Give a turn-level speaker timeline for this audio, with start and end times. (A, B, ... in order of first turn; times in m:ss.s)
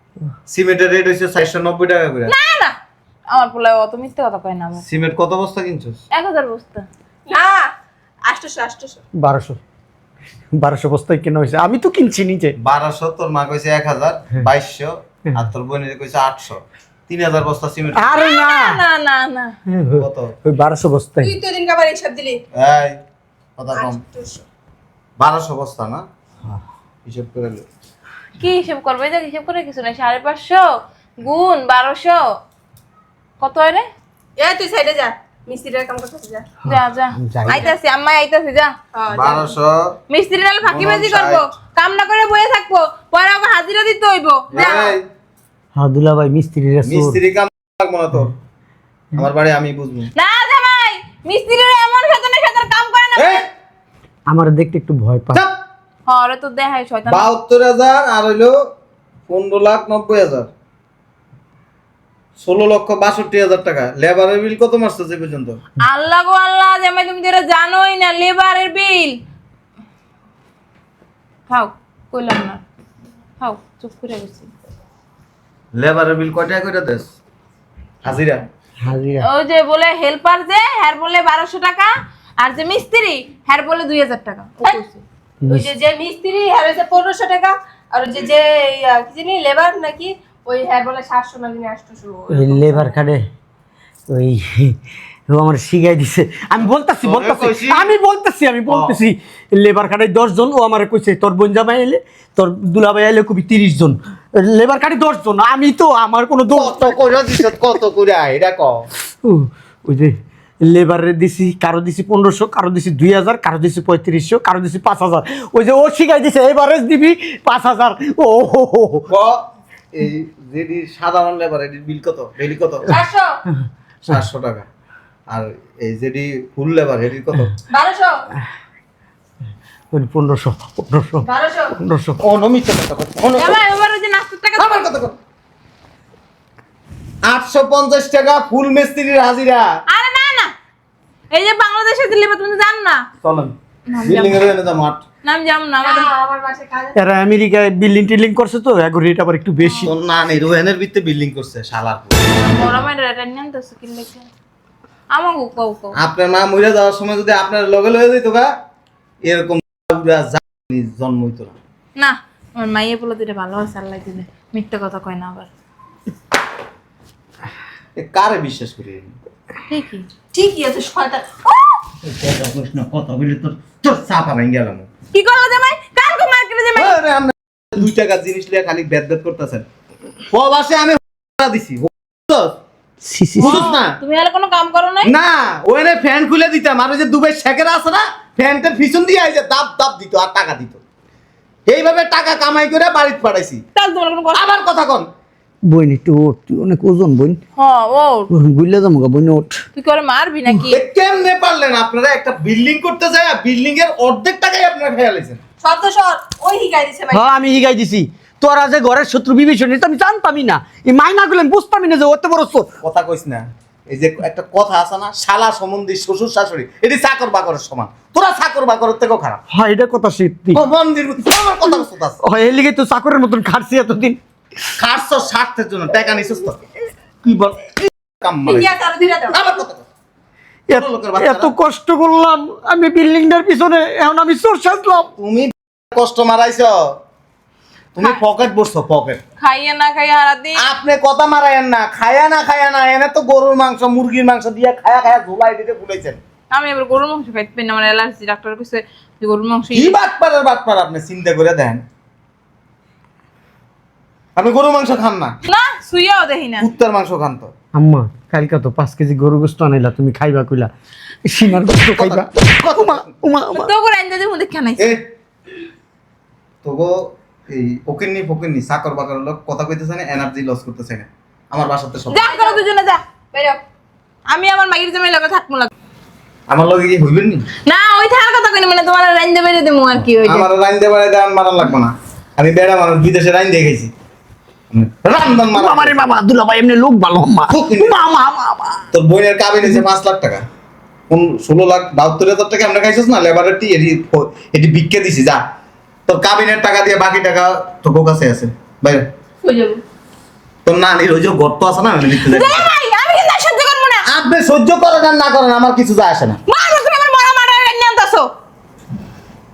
0:00.5-0:02.3 A
0:02.3-0:02.7 B
0:03.3-0:04.8 B
0:04.8-0:06.0 A
0:06.1-0:06.8 B
0:07.3-0:07.7 C
0:08.2-0:09.0 C
0:09.2-0:09.6 D
0:10.5-0:12.6 D
0:12.6-0:18.2 A
0:17.9-0:18.8 D
0:18.1-0:19.5 B
0:19.7-0:21.4 D
0:20.0-0:20.3 A
0:21.2-0:22.4 C
0:22.6-0:23.0 A
0:23.6-0:24.0 A
0:23.7-0:24.4 C
0:25.2-0:26.0 A
0:27.0-0:27.6 A
0:28.4-0:30.7 B
0:31.2-0:32.2 B
0:33.4-0:33.8 B
0:34.4-0:36.5 C
0:36.6-0:37.7 D
0:36.6-0:38.7 B
0:38.9-0:39.5 C
0:39.1-0:39.9 A
0:40.1-0:44.9 B
0:40.6-0:41.4 A
0:44.5-0:45.0 A
0:44.6-0:44.9 C
0:45.8-0:47.2 D
0:46.8-0:48.3 A
0:49.2-0:50.1 A
0:50.1-0:53.4 B
0:53.2-0:53.5 A
0:54.3-0:55.4 D
0:56.1-0:57.3 B
0:57.1-0:58.6 A
0:59.3-1:00.5 A
1:02.4-1:05.6 A
1:05.8-1:09.2 B
1:11.5-1:12.6 B
1:13.4-1:14.5 B
1:15.7-1:17.1 A
1:18.0-1:18.4 A
1:18.8-1:19.2 D
1:19.2-1:25.0 B
1:25.4-1:25.7 D
1:25.4-1:33.0 C
1:32.3-1:33.3 D
1:34.1-1:47.3 D
1:37.0-1:37.9 A
1:38.7-1:39.0 A
1:46.5-1:48.8 A
1:49.2-1:59.0 D
1:59.1-1:59.4 A
1:59.9-2:02.9 A
2:02.9-2:03.4 C
2:04.1-2:04.7 A
2:05.3-2:07.5 A
2:07.7-2:08.2 C
2:09.9-2:11.2 D
2:11.2-2:11.7 C
2:11.8-2:12.2 D
2:12.2-2:13.6 A
2:13.4-2:14.9 B
2:14.6-2:15.1 A
2:17.2-2:19.7 A
2:19.9-2:20.5 B
2:21.3-2:23.0 B
2:23.2-2:25.0 A
2:23.9-2:24.4 B
2:25.2-2:26.1 B
2:25.8-2:27.0 C
2:26.9-2:29.9 D
2:29.6-2:29.8 B
2:29.8-2:32.2 A
2:32.3-2:34.3 B
2:35.1-2:35.9 B
2:35.9-2:38.5 A
2:39.2-2:41.5 A
2:42.0-2:45.5 B
2:48.0-2:49.1 A
2:49.7-2:50.1 B
2:50.3-2:51.4 C
2:51.4-2:51.8 B
2:52.0-2:54.9 A
2:55.1-2:57.0 B
2:56.7-2:59.6 A
3:00.3-3:02.6 A
3:03.0-3:03.6 D
3:03.4-3:04.0 A
3:03.4-3:05.1 B
3:05.0-3:10.8 A
3:11.7-3:13.6 A
3:13.8-3:14.5 B
3:14.3-3:15.1 A
3:15.7-3:17.4 D
3:17.6-3:18.3 B
3:18.3-3:19.6 D
3:19.8-3:20.8 B
3:20.7-3:25.4 A
3:25.6-3:27.3 C
3:27.1-3:32.7 D
3:32.8-3:39.4 A
3:39.5-3:40.6 D
3:40.5-3:42.2 A
3:42.2-3:44.2 D
3:44.8-3:46.6 A
3:47.2-3:48.7 A
3:48.4-3:49.4 C
3:49.3-3:49.9 A
3:50.7-3:55.1 D
3:50.7-3:51.5 A
3:55.2-3:56.9 A
3:57.9-3:59.2 A
3:59.4-4:00.6 B
4:00.6-4:06.2 A
4:06.5-4:10.0 B
4:09.7-4:11.8 A
4:14.4-4:15.3 A
4:15.4-4:16.6 B
4:16.6-4:17.5 A
4:17.7-4:20.7 D
4:21.2-4:23.7 D
4:21.9-4:23.0 A
4:23.5-4:24.8 B
4:24.8-4:25.0 A
4:26.6-4:32.2 A
4:32.1-4:33.0 B
4:32.2-4:32.6 C
4:33.3-4:33.6 C
4:34.3-4:35.7 B
4:36.5-4:37.4 A
4:37.6-4:40.5 B
4:40.2-4:43.9 A
4:44.7-4:46.0 A
4:45.5-4:48.9 D
4:47.5-4:48.0 A
4:48.9-4:50.4 A
4:51.1-4:55.4 A
4:56.1-4:59.1 A
4:59.4-4:59.8 C
5:00.6-5:02.7 A
5:02.2-5:04.0 B
5:04.0-5:06.4 A
5:06.5-5:08.3 B